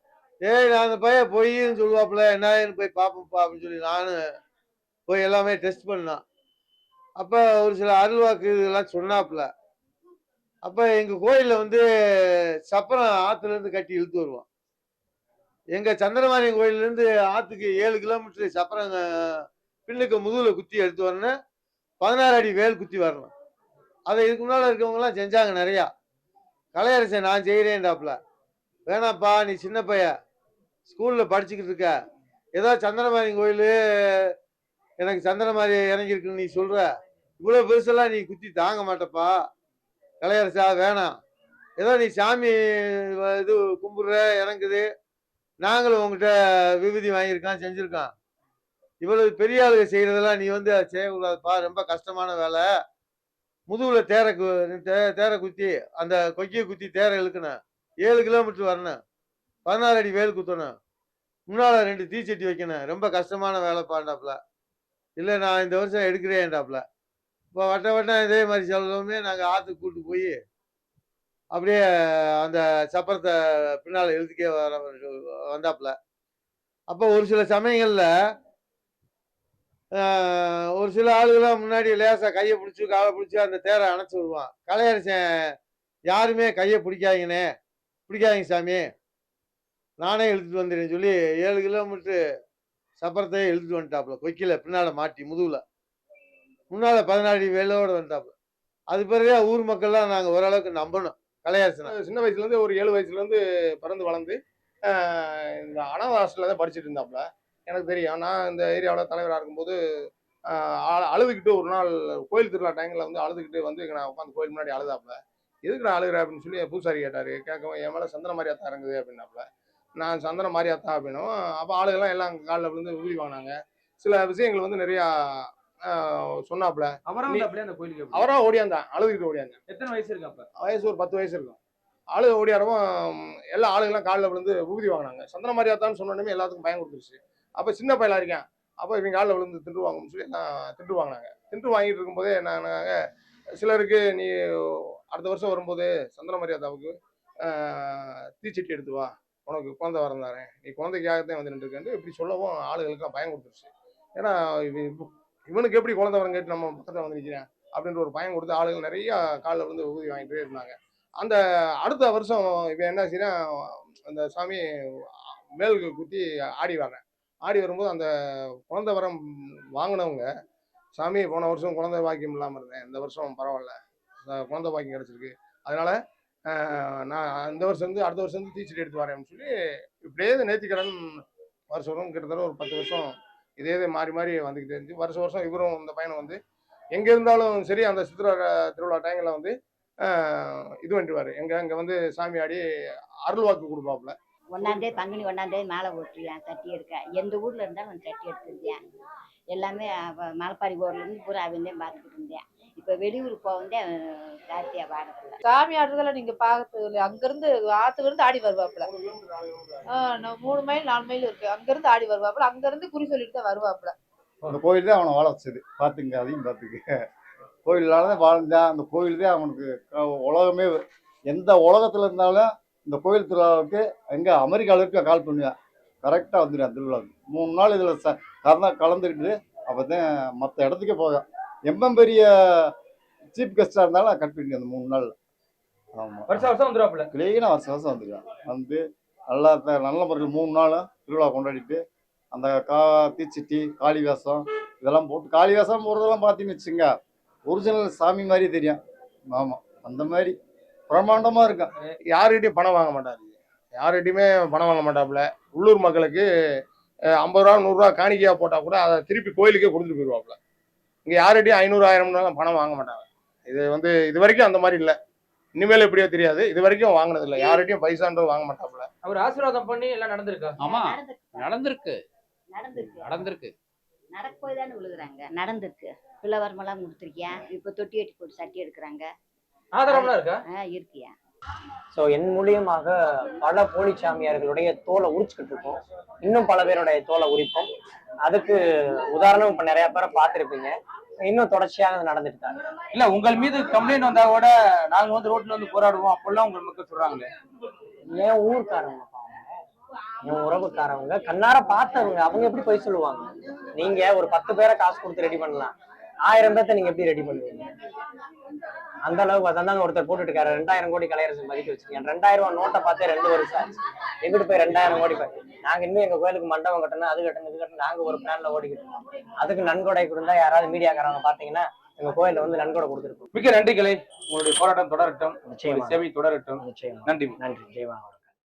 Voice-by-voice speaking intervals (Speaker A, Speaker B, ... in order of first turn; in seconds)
Speaker A: 0.4-4.2, 5.1-6.2, 7.2-9.5, 10.6-11.8, 12.7-14.4, 15.7-21.3, 22.0-23.3, 24.1-25.9, 26.7-28.2, 28.9-30.1, 30.9-31.9, 32.5-34.3, 35.0-36.9, 37.4-39.3, 40.2-41.1, 41.8-42.6, 43.1-44.8, 45.6-48.1, 49.0-52.6, 53.7-59.0, 59.6-60.7, 61.5-64.4, 65.2-66.8, 67.5-70.3, 71.5-71.8, 72.4-75.9, 76.9-78.1, 80.0-85.2, 86.1-87.4, 88.1-88.9, 90.0-92.2, 93.0-95.6, 96.7-98.3, 98.9-101.9
Speaker B: 102.0-104.3, 105.7-109.7, 110.9-115.1, 115.7-119.4, 120.0-123.5, 124.0-125.0, 126.5-127.4, 128.2-129.5, 130.6-131.6, 132.2-132.8, 133.6-142.9, 143.6-144.3, 145.1-146.9, 148.4-153.7, 154.2-161.3, 161.8-163.3, 164.1-164.6, 165.6-168.0, 168.7-169.1, 169.8-170.2, 171.0-173.7, 174.3-175.9, 177.1-179.4, 180.1-180.9, 181.7-183.1, 183.6-186.3, 186.9-189.5, 190.9-192.6, 193.3-194.1, 208.9-209.7, 252.2-256.2, 257.3-260.4, 261.1-264.9, 265.6-268.8
Speaker C: 127.1-128.3, 129.7-130.4, 236.3-237.1, 269.0-270.6, 279.7-280.4, 292.9-297.3, 323.3-327.3
Speaker D: 194.6-198.8, 199.6-203.9, 204.5-205.4, 270.8-271.3, 272.5-273.2, 274.1-279.0, 280.1-281.1
Speaker E: 205.4-208.9, 209.9-213.9
Speaker F: 214.5-216.9, 217.7-225.5, 226.0-232.7, 233.3-235.1, 235.9-236.5, 237.1-241.8, 242.3-246.9, 247.5-248.8, 249.3-250.3, 250.9-251.7
Speaker G: 270.6-272.0, 272.7-273.5
Speaker H: 281.9-287.7, 288.2-292.6, 298.1-299.5, 300.2-307.7, 309.0-323.2, 325.4-326.0, 326.6-328.3